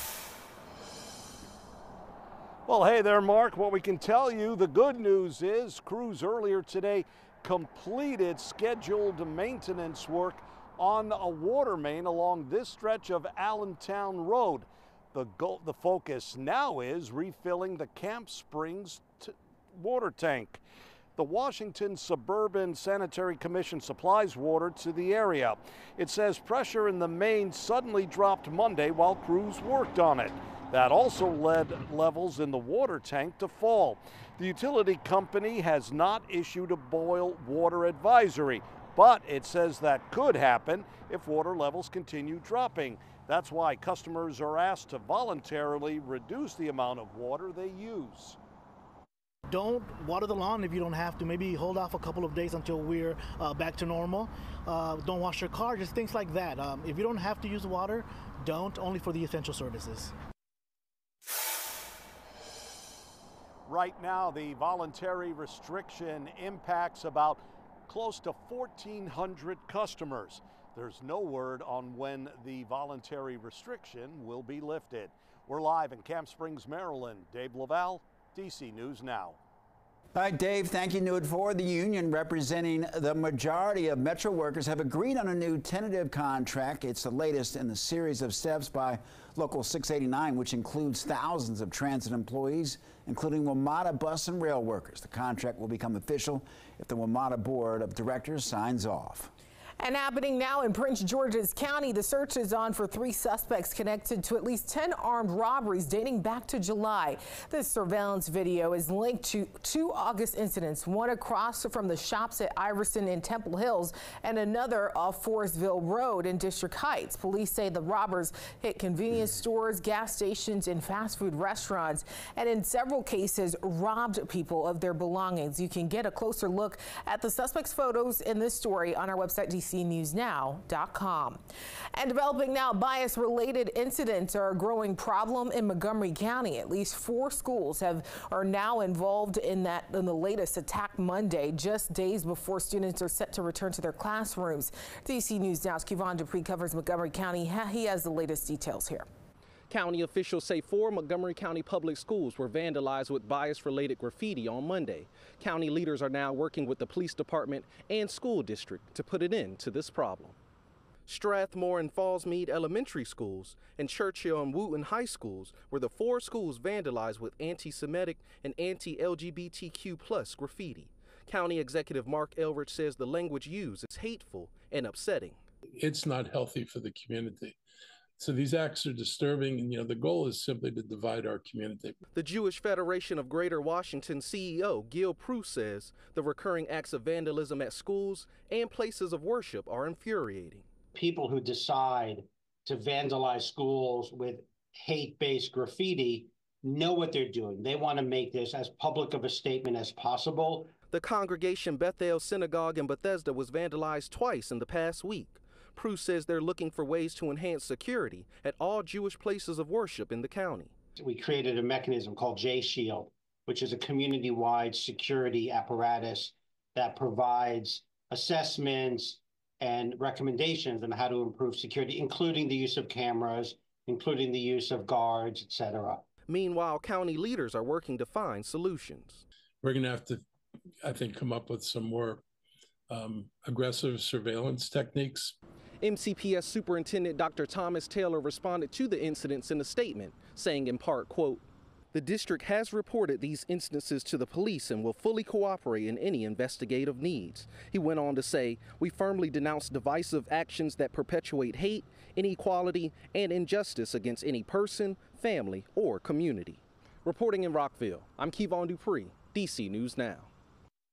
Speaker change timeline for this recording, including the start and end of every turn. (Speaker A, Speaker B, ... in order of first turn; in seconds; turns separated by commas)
Speaker A: 2.6-20.6, Speaker A: 21.2-48.4, Speaker B: 49.5-60.1, Speaker A: 63.7-79.4, Speaker C: 80.1-99.3, Speaker D: 99.8-131.4, Speaker D: 131.9-149.1, Speaker E: 149.7-160.3, Speaker E: 161.1-175.4, Speaker F: 175.8-177.6, Speaker F: 178.2-182.0, Speaker E: 182.1-190.7, Speaker G: 190.9-200.7, Speaker E: 200.9-210.7, Speaker G: 211.0-226.0, Speaker E: 226.3-229.2, Speaker F: 229.6-230.2, Speaker F: 230.8-232.2, Speaker F: 232.9-235.3, Speaker E: 235.8-260.3